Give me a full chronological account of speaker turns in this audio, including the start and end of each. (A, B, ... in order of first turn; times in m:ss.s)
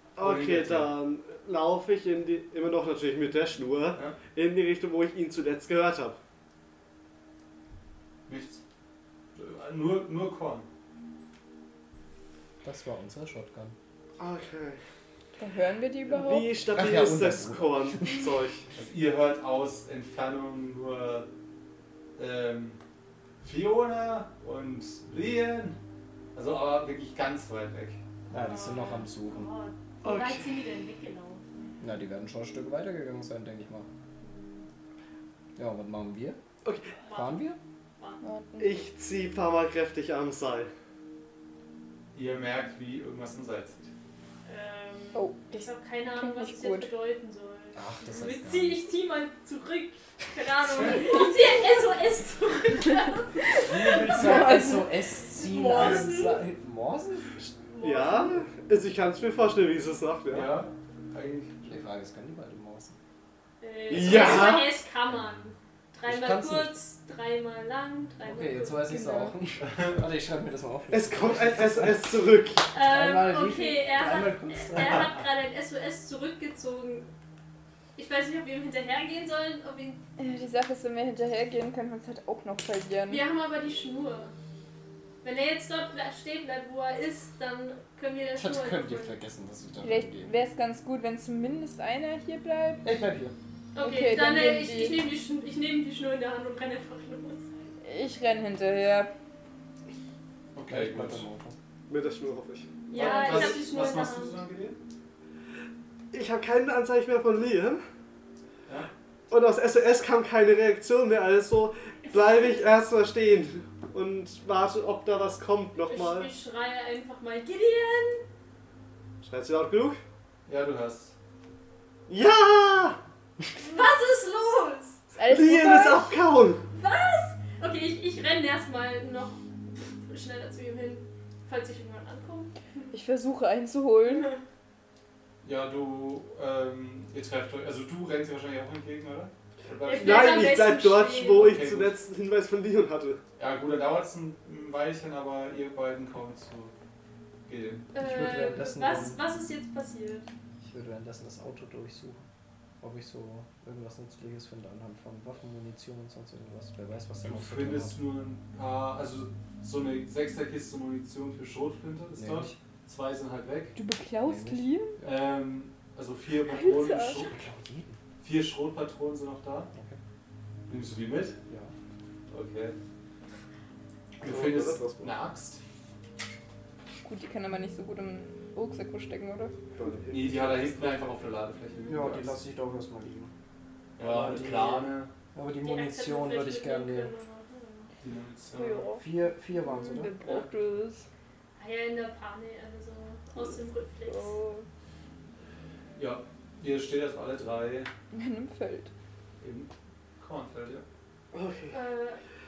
0:00.2-0:06.2 A
0:00.2-0:00.9 B
0:08.3-0:08.6 B
0:09.4-0:10.7 B
0:12.6-0:13.8 C
0:14.2-0:14.8 A
0:15.4-0:16.6 D
0:16.1-0:18.7 A
0:16.7-0:18.2 C
0:18.8-0:21.3 B
0:22.2-0:22.8 B
0:23.4-0:25.8 B
0:26.4-0:28.0 B
0:28.3-0:29.5 C
0:28.3-0:31.6 E
0:30.0-0:30.4 A
0:31.8-0:33.9 C
0:34.2-0:34.7 E
0:35.6-0:36.4 C
0:36.6-0:36.9 A
0:37.0-0:37.4 E
0:37.1-0:37.6 C
0:38.2-0:38.7 D
0:38.6-0:40.7 A
0:42.1-0:43.9 B
0:44.4-0:54.6 E
0:45.2-0:46.9 D
0:47.8-0:48.8 C
0:50.8-0:51.3 D
0:53.6-0:54.9 D
0:53.6-0:54.5 B
0:53.7-0:57.3 C
0:55.3-0:56.4 E
0:57.4-1:00.5 A
0:57.7-0:58.4 E
1:00.3-1:01.8 B
1:01.6-1:03.0 C
1:03.6-1:09.3 E
1:03.9-1:04.8 A
1:06.0-1:06.8 C
1:08.2-1:12.1 C
1:09.6-1:10.0 B
1:10.9-1:12.7 A
1:12.7-1:17.1 E
1:12.8-1:15.2 C
1:14.8-1:15.0 B
1:18.0-1:20.0 E
1:20.2-1:23.2 D
1:23.1-1:24.3 E
1:25.2-1:29.2 E
1:28.4-1:30.3 C
1:29.8-1:32.9 D
1:32.8-1:33.3 C
1:33.8-1:37.5 E
1:33.8-1:35.0 D
1:37.8-1:39.1 D
1:40.5-1:41.3 B
1:40.7-1:41.6 C
1:41.9-1:43.6 A
1:42.9-1:44.4 E
1:42.9-1:44.8 B
1:46.1-1:47.8 A
1:49.3-1:56.3 A
1:55.8-1:58.2 E
1:59.2-2:00.0 A
2:00.5-2:01.1 B
2:02.1-2:03.0 A
2:03.6-2:05.0 E
2:05.1-2:06.2 D
2:05.2-2:06.6 A
2:06.7-2:12.5 E
2:12.9-2:14.4 D
2:14.1-2:14.4 E
2:15.4-2:20.7 B
2:19.8-2:21.5 E
2:19.9-2:23.2 A
2:21.3-2:22.0 B
2:23.4-2:26.7 B
2:27.5-2:27.9 B
2:27.9-2:30.3 E
2:28.0-2:29.2 C
2:30.6-2:32.3 C
2:32.8-2:38.0 C
2:37.2-2:43.8 B
2:42.2-2:42.6 C
2:43.8-2:45.0 D
2:44.2-2:45.2 C
2:45.0-2:47.3 B
2:46.5-2:47.3 D
2:47.1-2:48.0 C
2:48.2-2:49.7 B
2:49.7-2:50.0 C
2:50.7-2:51.4 B
2:52.3-2:52.8 B
2:54.2-2:55.2 A
2:54.2-2:55.6 B
2:57.0-2:59.5 D
2:59.8-3:01.2 A
3:00.1-3:02.4 B
3:01.9-3:03.3 C
3:04.0-3:05.1 B
3:04.0-3:07.1 C
3:05.6-3:07.9 E
3:08.0-3:08.9 B
3:08.5-3:11.1 D
3:09.0-3:10.1 C
3:11.6-3:14.4 E
3:14.1-3:14.7 D
3:16.0-3:17.9 B
3:18.1-3:18.9 D
3:19.4-3:20.8 B
3:21.3-3:21.8 A
3:21.7-3:22.2 E